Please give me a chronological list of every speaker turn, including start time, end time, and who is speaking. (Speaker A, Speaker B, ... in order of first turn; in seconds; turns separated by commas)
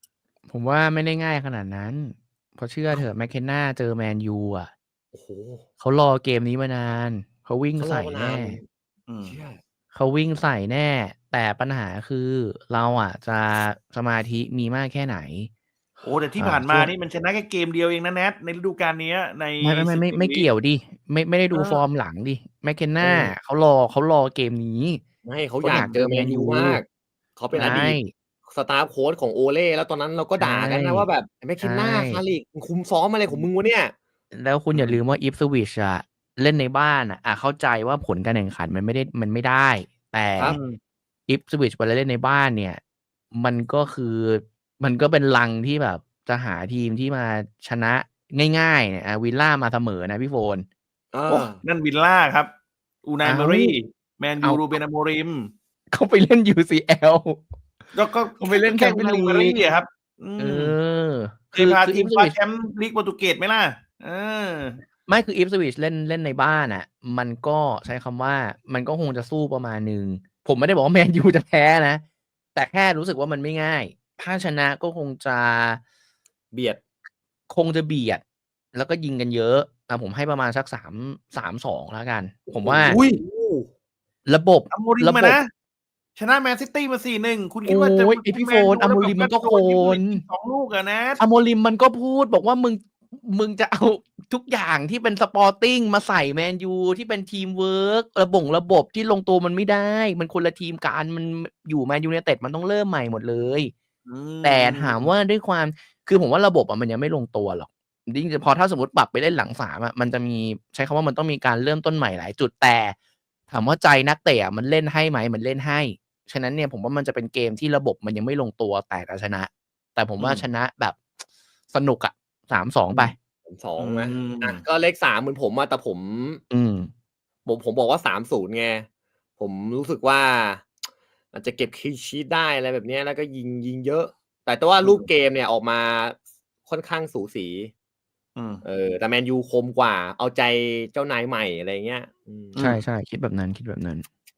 Speaker A: 0.5-4.7, Speaker B: 5.1-5.6, Speaker A: 5.8-8.6, Speaker B: 7.8-8.6, Speaker C: 9.1-9.3, Speaker B: 9.2-9.6, Speaker A: 9.9-15.5, Speaker C: 16.0-20.5, Speaker A: 16.4-16.9, Speaker A: 19.6-25.0, Speaker B: 21.5-21.8, Speaker B: 23.0-23.3, Speaker B: 25.2-33.9, Speaker A: 25.6-26.8, Speaker C: 27.5-27.9, Speaker A: 27.6-28.1, Speaker A: 30.4-31.1, Speaker A: 31.6-32.2, Speaker A: 34.3-40.5, Speaker C: 34.7-35.0, Speaker C: 40.4-40.8, Speaker A: 41.3-42.8, Speaker A: 43.3-50.6, Speaker B: 51.1-51.6, Speaker C: 51.3-52.5, Speaker C: 53.0-55.5, Speaker A: 53.2-53.8, Speaker A: 55.9-57.4, Speaker C: 57.9-60.8, Speaker A: 58.4-59.6, Speaker A: 60.4-62.4, Speaker C: 61.5-64.8, Speaker A: 65.1-72.0, Speaker A: 72.5-75.8, Speaker B: 76.5-76.8, Speaker A: 77.5-83.0, Speaker B: 82.5-83.7, Speaker C: 82.8-83.2, Speaker A: 84.2-85.4, Speaker C: 84.7-85.5, Speaker C: 86.2-91.2, Speaker A: 87.7-90.2, Speaker A: 91.2-103.7, Speaker C: 104.0-105.1, Speaker A: 104.4-112.9, Speaker A: 113.5-121.1, Speaker C: 120.2-120.4, Speaker A: 121.7-123.1, Speaker B: 122.9-126.4, Speaker C: 123.8-124.6, Speaker A: 126.5-126.9, Speaker B: 127.4-128.8, Speaker B: 129.4-130.7, Speaker B: 131.3-137.7, Speaker C: 134.8-135.1, Speaker C: 138.3-138.6, Speaker B: 138.6-142.6, Speaker C: 142.5-142.8, Speaker A: 142.6-144.0